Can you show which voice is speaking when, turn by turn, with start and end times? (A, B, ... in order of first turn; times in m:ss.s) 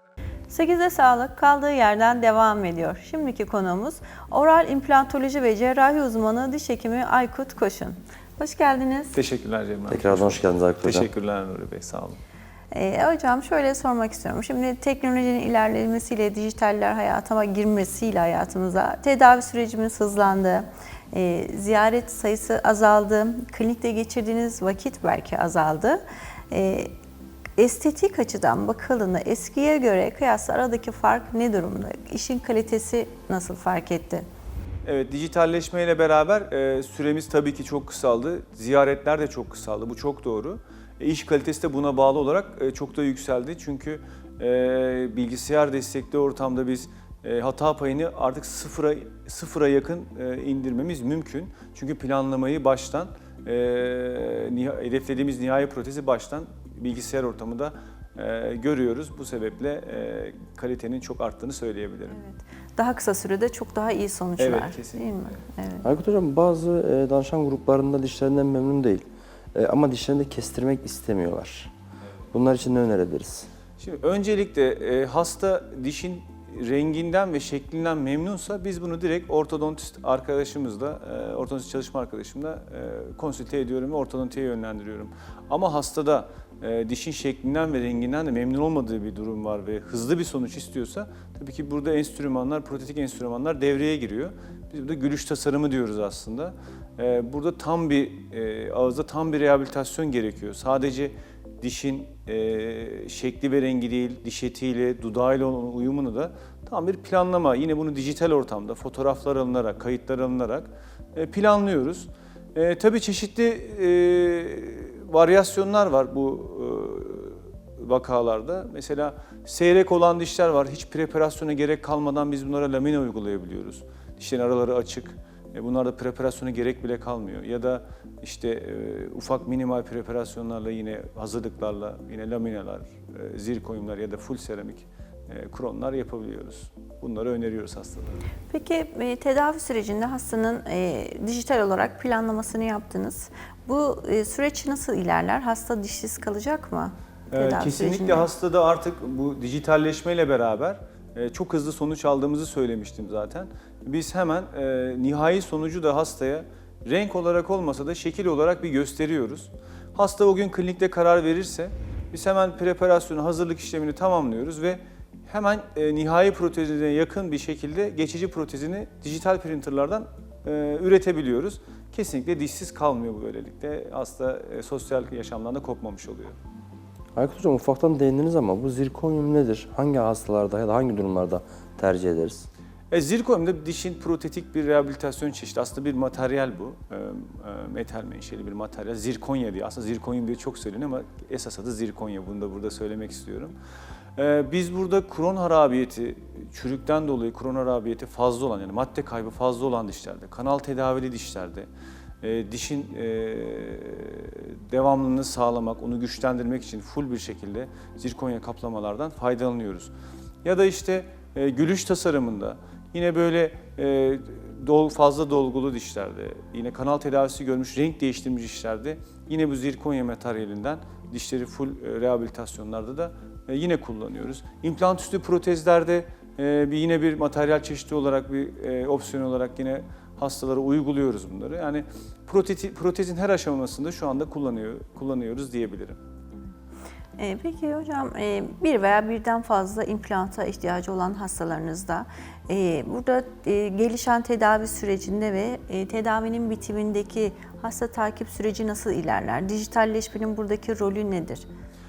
0:00.5-0:09.2 A
0:09.1-0:12.2 B
0:09.9-0:11.1 C
0:12.7-0:26.9 A
0:27.6-0:34.3 A
0:34.8-1:02.2 B
1:02.1-1:05.8 A
1:04.4-1:05.4 B
1:05.8-1:11.7 C
1:12.3-1:13.5 C
1:13.8-2:18.2 B
2:18.5-2:28.3 A
2:27.3-2:56.4 B
2:57.1-3:02.5 C
3:02.9-3:13.5 B
3:14.2-3:21.7 B
3:22.2-3:29.9 B
3:30.4-3:56.0 B
3:57.2-4:11.5 A